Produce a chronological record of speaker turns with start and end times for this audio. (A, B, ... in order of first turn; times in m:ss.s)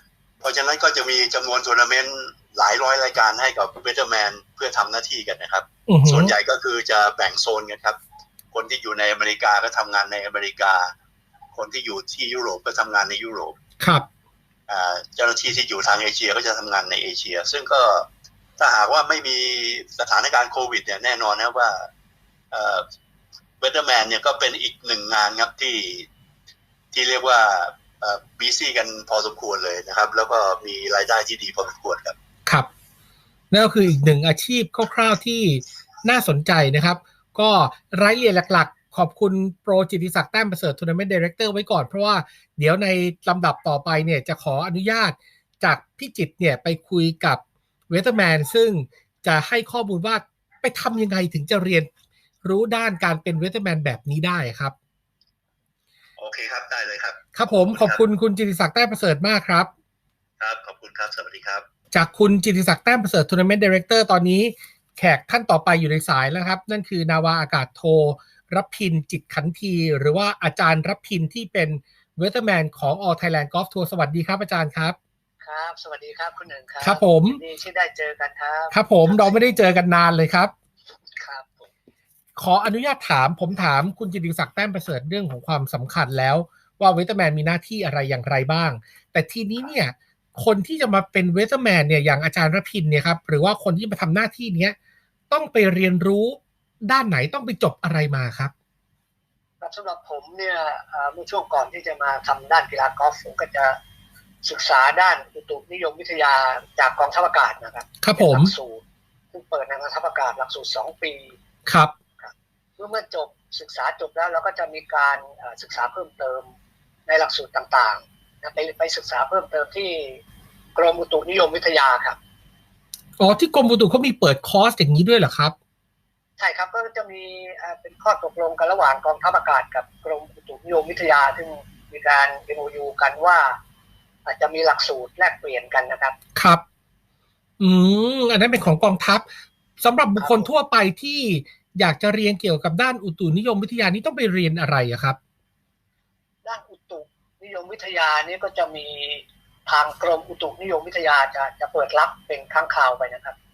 0:00.4-0:08.0 A
0:05.9-0:06.3 B
0:08.5-0:10.9 A
0:11.5-0:13.6 A
0:13.8-0:14.1 B
0:14.7-0:18.1 A
0:18.6-0:21.9 A
0:22.5-0:22.8 A
0:23.6-0:26.1 A
0:26.9-0:32.1 A
0:33.5-0:51.9 B
0:52.4-0:54.7 B
0:56.2-0:58.0 A
0:57.3-0:59.7 B
1:00.4-1:01.6 A
1:01.9-1:15.0 B
1:15.4-1:19.5 C
1:16.8-1:17.4 B
1:18.7-1:20.5 B
1:21.1-1:21.7 C
1:22.4-1:34.7 B
1:35.3-1:38.5 B
1:39.6-1:43.8 C
1:44.4-1:51.4 C
1:48.0-1:48.5 B
1:51.7-1:51.9 B
1:52.2-1:56.5 C
1:57.1-2:00.2 C
2:00.8-2:02.2 C
2:03.2-2:05.5 B
2:06.4-2:13.6 C
2:14.2-2:16.2 C
2:16.3-2:16.6 B
2:17.6-2:19.2 B
2:19.8-2:25.2 B
2:20.2-2:20.5 C
2:26.4-2:33.3 C